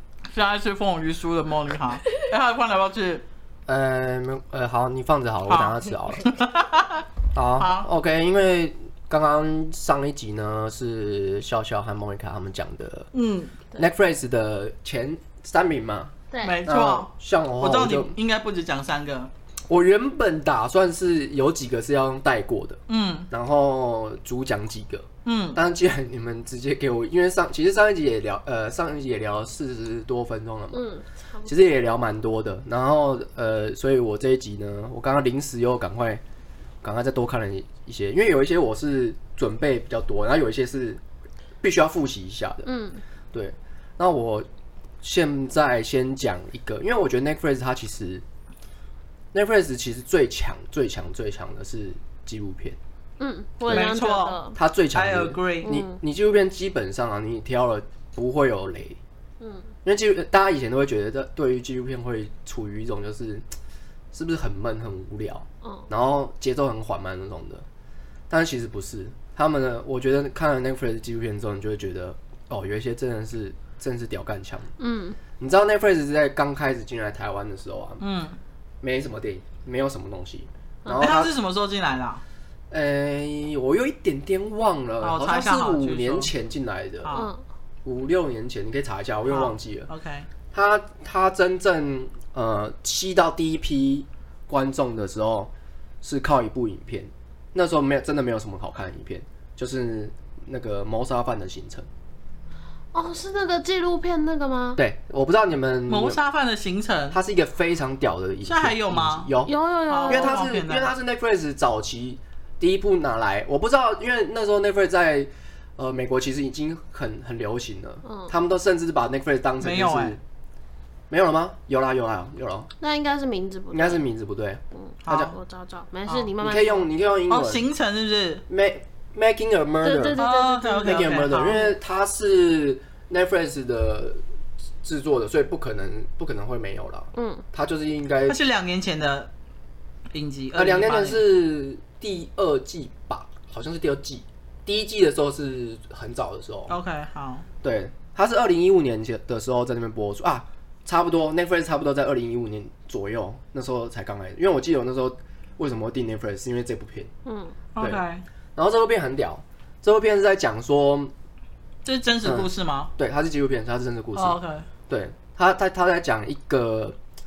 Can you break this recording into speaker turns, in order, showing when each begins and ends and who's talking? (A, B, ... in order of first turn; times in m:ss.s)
0:00.3-0:03.2 A
0:03.7-0:06.3 B
0:05.5-0:07.0 A
0:07.3-0:13.1 B
0:07.6-0:07.9 A
0:13.1-0:13.6 A
0:13.7-0:16.1 B
0:16.3-0:16.6 C
0:16.4-0:19.3 A
0:16.6-0:18.2 B
0:19.7-0:30.8 B
0:22.9-0:23.3 A
0:25.2-0:25.6 A
0:30.7-0:31.5 C
0:31.4-0:36.2 B
0:36.8-0:41.0 B
0:41.6-0:42.7 B
0:42.6-0:43.0 C
0:43.3-0:44.5 B
0:45.0-0:48.2 B
0:49.3-0:52.8 B
0:53.2-0:54.5 C
0:53.7-0:54.4 A
0:54.5-0:59.0 B
0:54.9-0:55.7 A
0:55.6-0:56.0 C
0:59.4-0:59.7 C
0:59.8-1:03.4 B
1:04.1-1:07.6 B
1:05.6-1:05.9 C
1:08.3-1:14.7 B
1:14.8-1:15.2 C
1:15.4-1:18.0 B
1:18.0-1:18.4 A
1:18.8-1:21.3 B
1:20.8-1:21.2 C
1:20.9-1:22.2 A
1:22.7-1:27.1 B
1:25.0-1:26.3 A
1:27.0-1:27.3 A
1:27.1-1:27.4 C
1:27.8-1:29.9 B
1:29.2-1:30.3 A
1:30.5-1:35.5 B
1:36.0-1:41.9 B
1:42.9-1:44.8 C
1:44.8-1:46.2 B
1:45.9-1:47.2 A
1:47.1-1:49.5 B
1:48.4-1:49.3 A
1:49.4-1:50.4 C
1:49.9-1:50.9 A
1:50.1-2:00.2 B
1:58.0-1:58.3 C
1:59.6-2:00.2 A
2:01.1-2:02.7 B
2:02.8-2:04.0 C
2:03.7-2:05.3 B
2:04.7-2:06.9 C
2:05.0-2:05.4 A
2:06.1-2:06.3 A
2:06.4-2:07.6 B
2:07.3-2:08.4 A
2:08.5-2:10.2 B
2:09.8-2:11.6 C
2:10.2-2:11.6 A
2:10.8-2:14.2 B
2:14.8-2:18.4 B
2:17.1-2:17.4 C
2:18.3-2:19.3 A
2:20.1-2:21.2 A
2:20.5-2:26.8 B
2:26.7-2:27.4 A
2:27.6-2:37.1 B
2:37.2-2:37.6 C
2:37.7-2:38.2 A
2:38.6-2:41.1 B
2:41.8-2:42.9 A
2:42.2-2:44.4 B
2:44.1-2:44.7 A
2:44.9-2:47.0 B